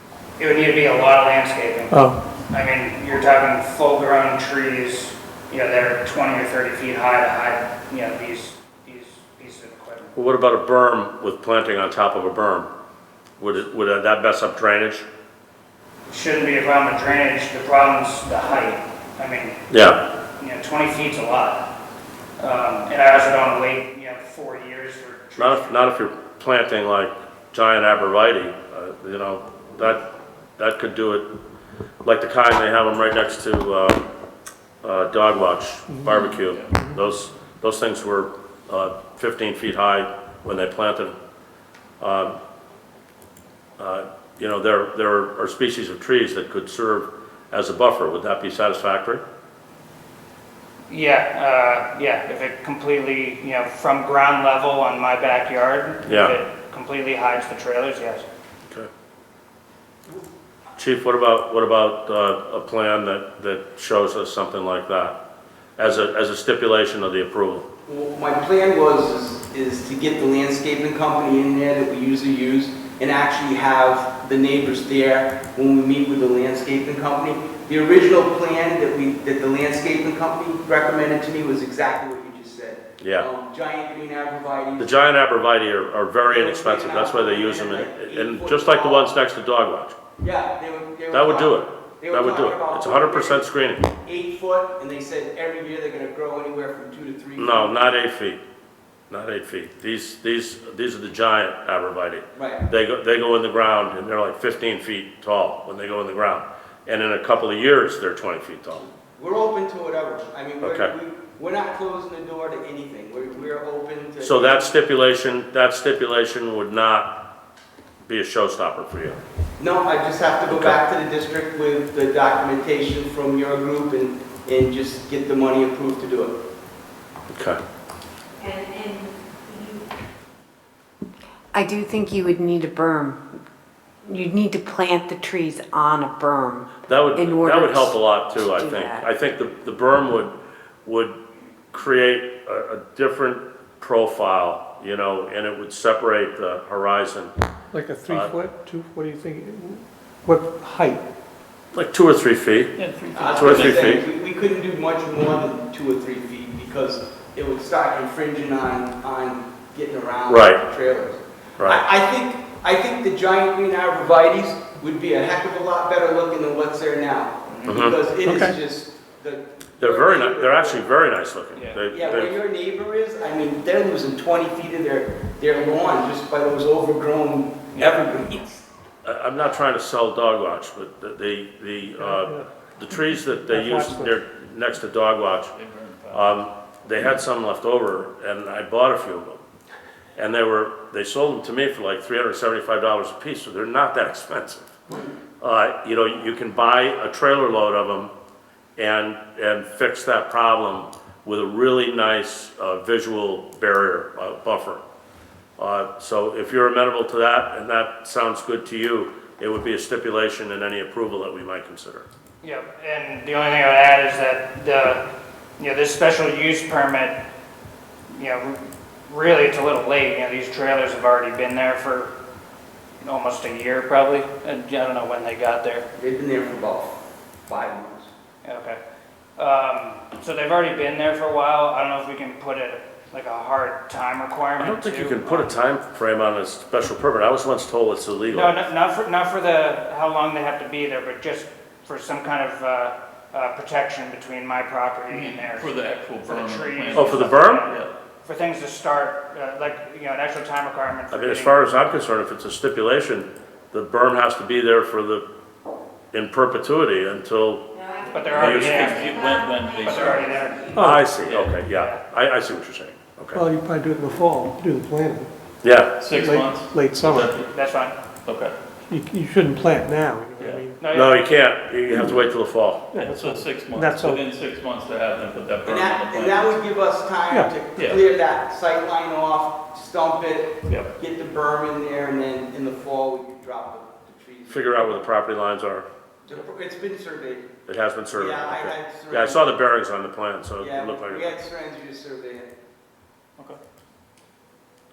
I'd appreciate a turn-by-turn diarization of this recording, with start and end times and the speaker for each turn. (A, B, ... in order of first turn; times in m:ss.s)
0:00.4-0:02.0 A
0:01.9-0:02.2 B
0:02.5-0:10.1 A
0:10.1-0:12.7 C
0:13.4-0:15.1 C
0:16.1-0:19.6 A
0:19.7-0:20.0 C
0:20.4-0:21.7 A
0:22.4-0:25.8 A
0:25.4-0:30.0 C
0:30.6-0:31.4 C
0:32.0-0:34.1 C
0:34.8-0:41.2 C
0:42.0-0:42.4 C
0:43.8-0:49.2 C
0:50.9-0:58.2 A
0:56.1-0:56.4 C
1:00.8-1:05.2 C
1:05.8-1:07.7 C
1:07.9-1:25.0 D
1:23.0-1:23.3 C
1:24.8-1:30.0 C
1:26.3-1:29.2 D
1:30.2-1:33.4 D
1:31.1-1:33.9 C
1:34.0-1:37.8 D
1:37.4-1:38.4 C
1:39.1-1:48.9 C
1:42.4-1:42.7 D
1:49.2-1:54.7 D
1:50.6-1:50.9 C
1:54.2-1:57.3 C
1:58.1-1:59.2 C
1:59.6-2:06.4 D
2:00.5-2:00.8 C
2:07.3-2:07.6 C
2:08.4-2:09.8 E
2:11.5-2:13.2 F
2:14.1-2:19.1 F
2:16.9-2:21.2 C
2:21.7-2:27.3 C
2:27.7-2:31.0 B
2:28.1-2:28.3 C
2:31.7-2:32.7 C
2:32.8-2:33.8 G
2:33.1-2:50.8 D
2:33.3-2:34.0 C
2:40.3-2:40.6 C
2:41.6-2:41.8 C
2:47.7-2:48.0 C
2:48.2-2:48.5 B
2:49.8-2:52.4 C
2:51.6-2:51.8 A
2:51.9-2:58.6 D
2:57.7-2:58.1 A
2:59.0-3:05.5 C
3:02.0-3:04.2 B
3:05.5-3:06.3 G
3:06.1-3:09.4 C
3:10.2-3:14.8 C
3:15.4-3:18.1 C
3:18.8-3:24.8 C
3:25.6-3:32.1 C
3:32.4-3:35.1 A
3:35.6-3:37.2 A
3:38.1-3:42.1 A
3:43.0-3:45.9 A
3:46.0-3:48.1 D
3:48.4-3:48.8 A
3:49.4-3:55.5 A
3:54.6-3:58.5 C
3:58.3-4:05.7 A
4:05.1-4:07.9 G
4:06.2-4:11.6 A
4:06.9-4:07.7 C
4:11.1-4:15.3 C
4:16.1-4:17.7 C
4:17.7-4:20.9 E
4:18.0-4:19.2 A
4:18.3-4:20.7 G
4:18.3-4:18.8 C
4:19.8-4:20.8 A
4:20.8-4:21.1 B
4:20.8-4:23.4 C
4:21.2-4:21.6 G
4:21.6-4:22.0 A
4:23.3-4:25.3 B
4:25.6-4:26.0 C
4:26.0-4:27.5 G
4:26.1-4:27.3 B
4:27.5-4:28.0 A
4:28.2-4:28.6 G
4:28.9-4:30.8 B
4:30.8-4:31.2 A
4:30.9-4:32.9 C
4:32.9-4:34.2 B
4:32.9-4:36.6 G
4:35.6-4:45.1 D
4:37.8-4:38.0 G
4:40.6-4:40.9 G
4:44.5-4:45.9 C
4:46.2-4:47.5 D
4:47.6-4:51.4 C
4:48.1-4:49.5 D
4:50.6-4:52.5 D